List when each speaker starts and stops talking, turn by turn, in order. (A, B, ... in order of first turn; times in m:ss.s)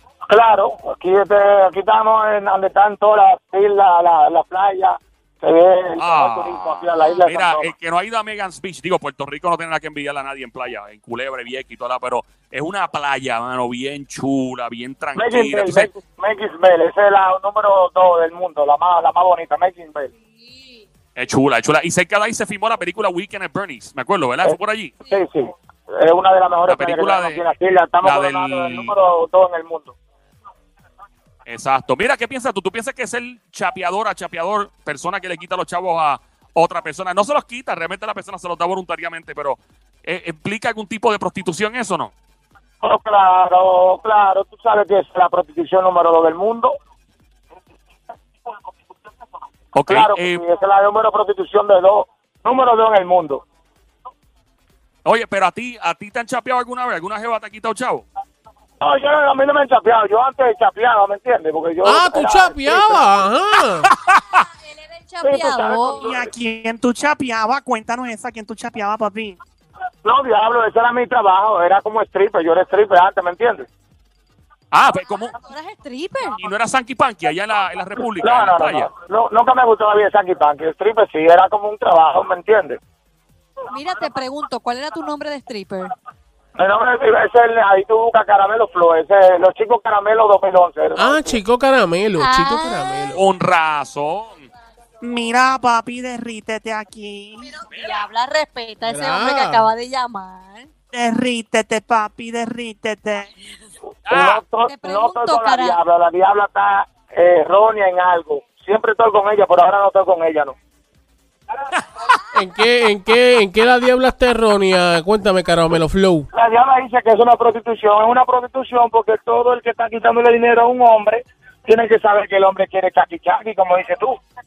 0:00.3-0:07.7 A
0:06.0-0:15.9 B
0:15.1-0:20.1 A
0:20.1-0:20.9 C
0:21.2-0:25.0 B
0:25.1-0:29.9 A
0:26.7-0:27.4 B
0:28.0-0:28.9 B
0:31.4-0:42.1 B
0:42.8-0:46.8 A
0:49.7-0:50.4 B
0:49.9-0:53.4 A
0:55.0-0:58.0 B
0:58.8-1:03.3 A
1:01.8-1:03.9 D
1:04.3-1:06.1 C
1:05.2-1:06.3 A
1:06.1-1:09.4 E
1:10.0-1:13.7 A
1:14.7-1:15.4 B
1:15.4-1:16.4 C
1:16.4-1:18.9 B
1:18.2-1:22.8 A
1:23.7-1:25.9 C
1:26.6-1:31.4 A
1:31.0-1:33.2 D
1:32.2-1:33.1 C
1:33.1-1:34.5 B
1:35.0-1:37.5 E
1:37.4-1:40.7 C
1:37.7-1:38.0 B
1:38.8-1:39.7 D
1:40.9-1:43.3 E
1:44.1-1:44.4 B
1:44.1-1:50.6 A
1:44.6-1:45.8 C
1:52.3-1:56.3 D
1:56.3-2:04.2 A